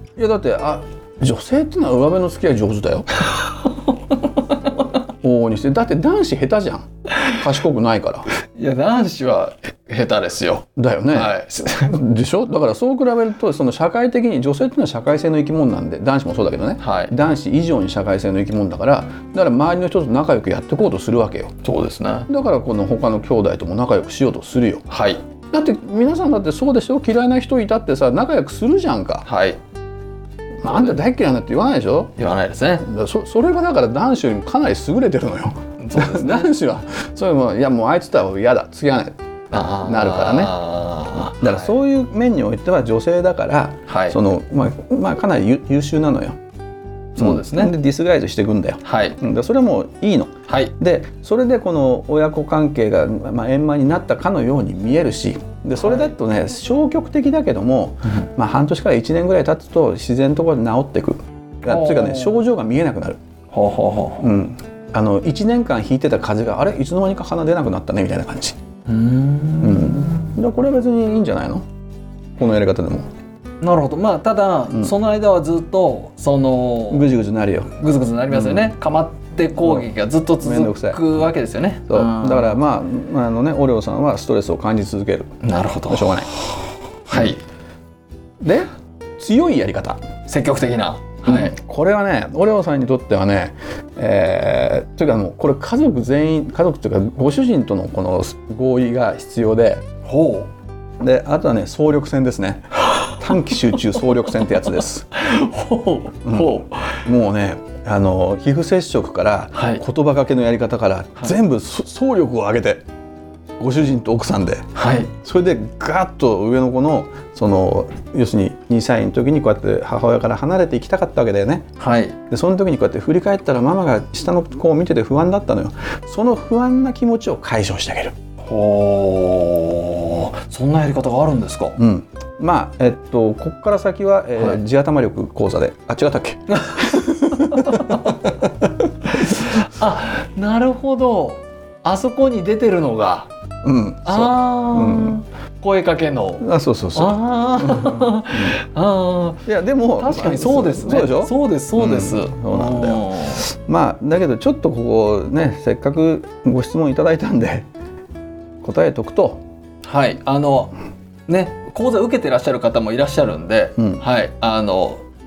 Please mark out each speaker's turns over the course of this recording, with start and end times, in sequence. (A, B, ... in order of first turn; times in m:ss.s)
0:00.2-0:03.1 A
0:03.4-0:04.7 B
0:05.2-0:08.3 A
0:08.5-0:12.0 B
0:10.8-0:21.5 A
0:16.8-0:17.1 B
0:21.6-0:22.3 B
0:22.3-0:24.8 A
0:24.9-0:25.2 B
0:25.5-0:29.3 A
0:29.2-0:29.6 B
0:30.6-0:32.2 A
0:30.7-0:31.0 B
0:32.2-0:32.9 B
0:32.8-0:39.1 A
0:35.8-0:36.5 B
0:39.5-0:41.7 B
0:39.8-0:40.6 A
0:41.4-0:46.4 A
0:43.9-0:44.2 B
0:47.2-0:47.7 B
0:47.2-1:03.2 A
0:48.8-0:49.2 B
0:50.5-0:50.7 B
1:01.6-1:02.4 B
1:03.5-1:04.3 B
1:04.2-1:08.6 A
1:08.9-1:10.3 B
1:09.6-1:11.6 A
1:12.4-1:13.1 A
1:13.6-1:17.1 B
1:16.9-1:17.7 A
1:17.7-1:22.6 B
1:18.3-1:18.7 A
1:19.6-1:21.2 A
1:21.9-1:25.3 A
1:25.4-1:27.4 B
1:25.9-1:26.3 A
1:28.4-1:30.0 A
1:30.3-1:31.6 B
1:31.3-1:39.8 A
1:40.0-1:40.5 B
1:41.0-1:45.2 A
1:43.9-1:47.0 B
1:46.2-1:52.8 A
1:49.5-1:49.8 B
1:53.6-1:54.6 A
1:54.8-1:55.1 B
1:55.2-2:01.6 A
2:01.8-2:02.2 B
2:02.3-2:08.1 A
2:08.5-2:11.8 B
2:11.8-2:18.5 A
2:17.5-2:18.2 B
2:19.2-2:23.3 B
2:23.6-2:25.2 A
2:24.0-2:29.4 B
2:26.4-2:28.6 A
2:29.5-2:37.7 A
2:30.0-2:33.4 B
2:38.6-2:39.4 A
2:39.8-2:40.8 B
2:41.3-2:45.0 B
2:43.8-2:44.0 A